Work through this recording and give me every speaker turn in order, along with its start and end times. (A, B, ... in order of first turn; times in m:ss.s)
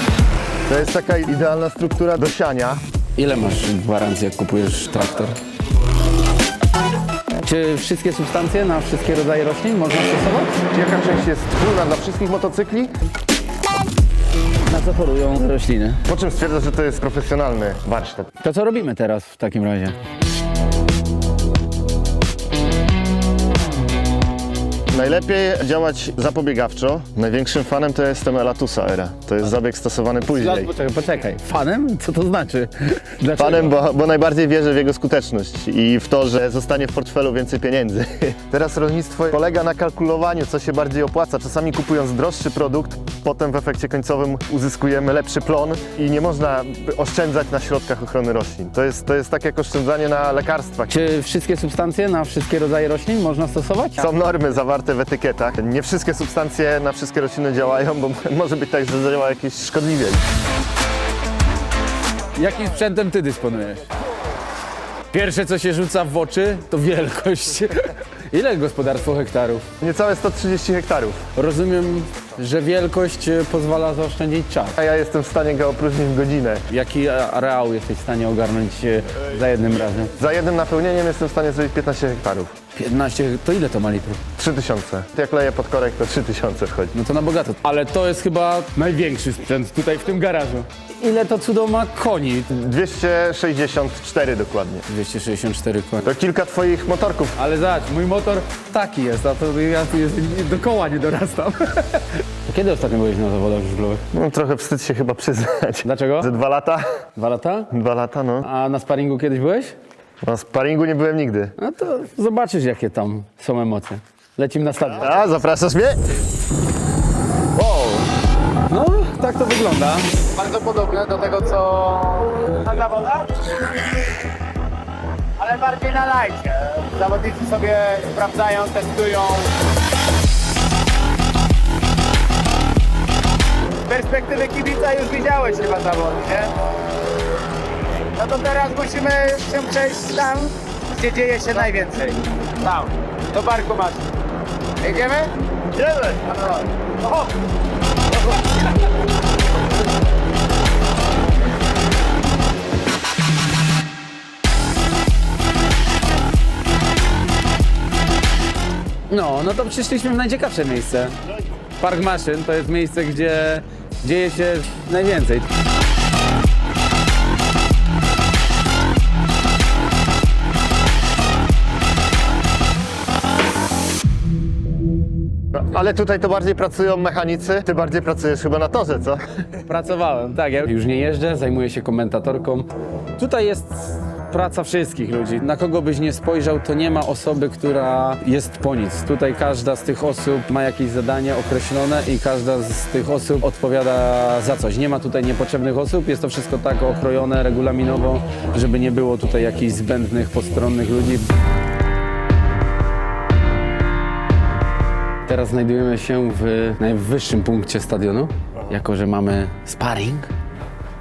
0:00.7-0:02.8 A
0:03.2-0:05.4 B
0:07.4-0:10.6 B
0:10.7-0:12.9 A
0:14.7-0:16.0 B
0:16.1-0:18.3 A
0:18.4-0:20.0 B
0:24.9-0:30.7 A
0:30.3-0:33.8 B
0:33.4-0:51.0 A
0:50.9-0:54.1 B
0:54.0-1:00.2 A
1:02.4-1:03.9 B
1:05.1-1:09.7 B
1:09.8-1:11.2 A
1:11.4-1:14.8 B
1:14.8-1:16.6 A
1:16.7-1:20.1 B
1:20.2-1:22.5 A
1:22.8-1:24.2 B
1:24.4-1:26.9 A
1:26.9-1:32.5 B
1:32.5-1:34.9 A
1:34.9-1:36.1 B
1:36.0-1:37.4 A
1:37.4-1:44.0 B
1:44.1-1:46.8 A
1:45.8-1:46.3 B
1:47.2-1:47.7 B
1:47.7-1:48.5 A
1:48.4-1:49.8 B
1:50.2-1:51.5 A
1:51.6-1:55.3 B
1:55.0-1:56.0 A
1:57.6-1:58.1 A
1:58.7-2:00.1 B
2:00.4-2:03.6 C
2:05.4-2:09.5 C
2:13.9-2:16.5 C
2:18.2-2:24.1 C
2:24.8-2:25.3 C
2:25.8-2:26.4 A
2:26.4-2:27.3 C
2:39.1-2:41.2 B
2:41.8-2:45.5 B
2:55.5-2:59.2 A
2:59.6-3:21.3 B
3:25.3-3:30.3 B